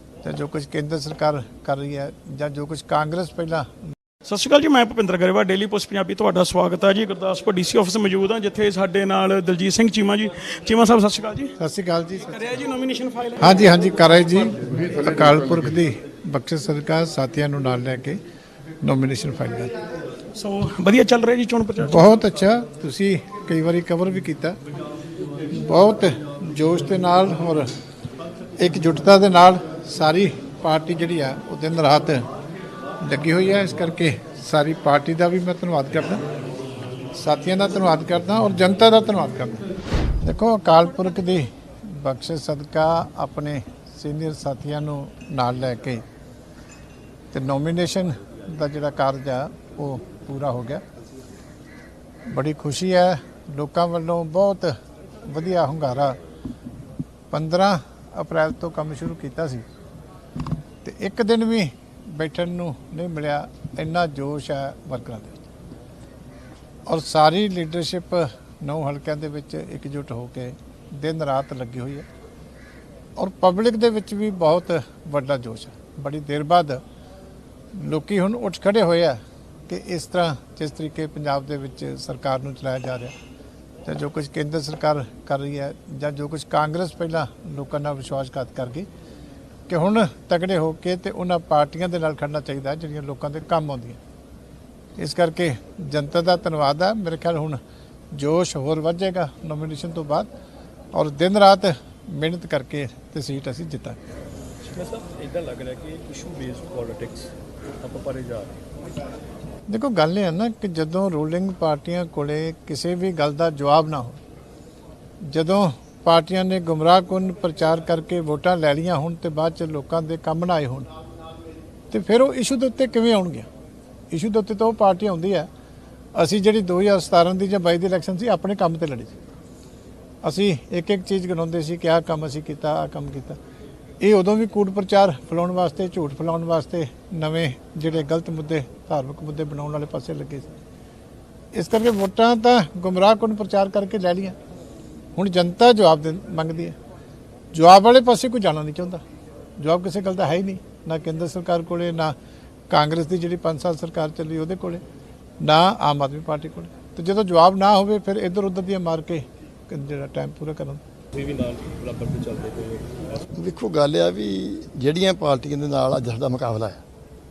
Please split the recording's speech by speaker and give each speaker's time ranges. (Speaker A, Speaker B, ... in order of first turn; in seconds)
Speaker A: 0.2-3.7, 11.6-12.4, 13.4-18.2, 18.8-19.7, 21.8-24.6, 25.5-27.7, 28.6-32.2, 33.0-36.2, 37.2-39.6, 40.2-46.0, 47.3-50.8, 52.3-56.2, 57.3-59.6, 60.8-65.4, 66.9-72.0, 73.2-76.8, 77.7-83.1, 83.8-88.9, 89.7-94.0, 95.0-97.6, 98.1-100.3, 100.9-104.0, 109.7-114.2, 115.2-120.9, 121.9-123.5, 124.1-125.5, 126.1-129.2, 130.2-133.4, 134.0-140.5, 141.5-144.4, 145.2-146.8, 147.5-149.0, 149.6-152.1, 152.7-154.8, 155.4-160.8
Speaker B: 4.2-11.5, 12.3-13.5, 20.3-22.1
Speaker C: 104.6-108.6, 161.1-163.2
Speaker D: 163.3-166.8